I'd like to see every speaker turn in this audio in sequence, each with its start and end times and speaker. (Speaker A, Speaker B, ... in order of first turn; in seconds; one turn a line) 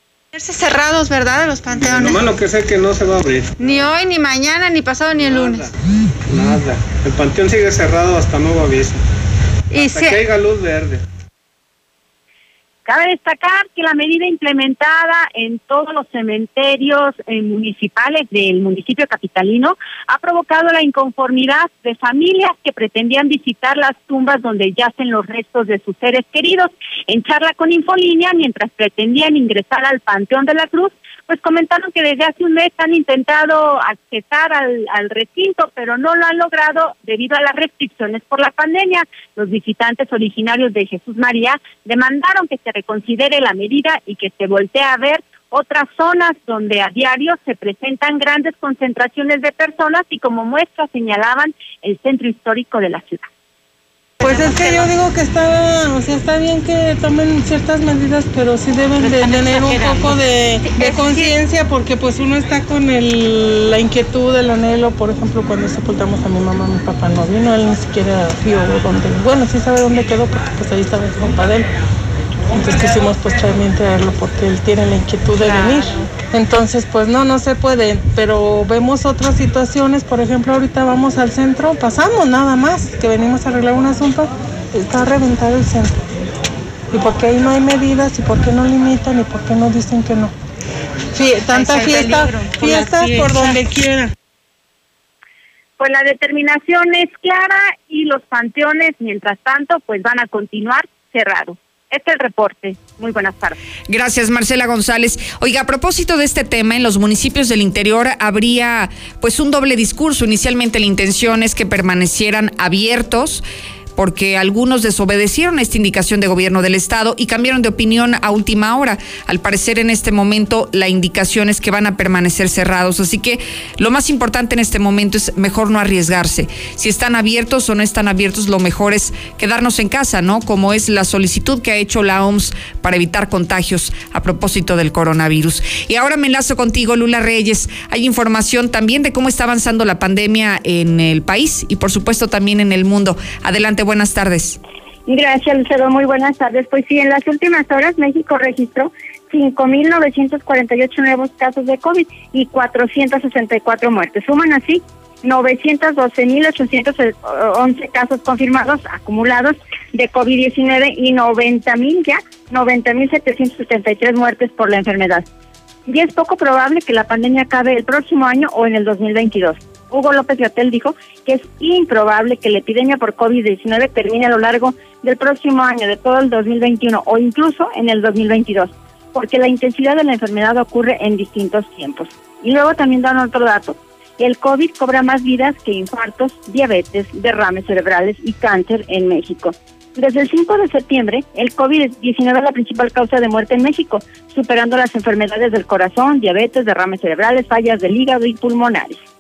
Speaker A: 0.5-2.1
Speaker B: 1.8-3.5
Speaker A: 3.6-5.5
Speaker B: 5.2-5.7
Speaker B: 6.3-9.0
Speaker B: 9.7-11.0
Speaker A: 9.7-10.1
Speaker C: 12.8-53.2
Speaker D: 54.2-71.7
Speaker D: 72.5-86.0
Speaker D: 86.9-90.3
Speaker D: 91.1-94.1
Speaker C: 95.8-103.6
Speaker E: 103.9-113.4
Speaker E: 114.0-144.6
Speaker F: 145.1-165.2
Speaker F: 165.9-199.0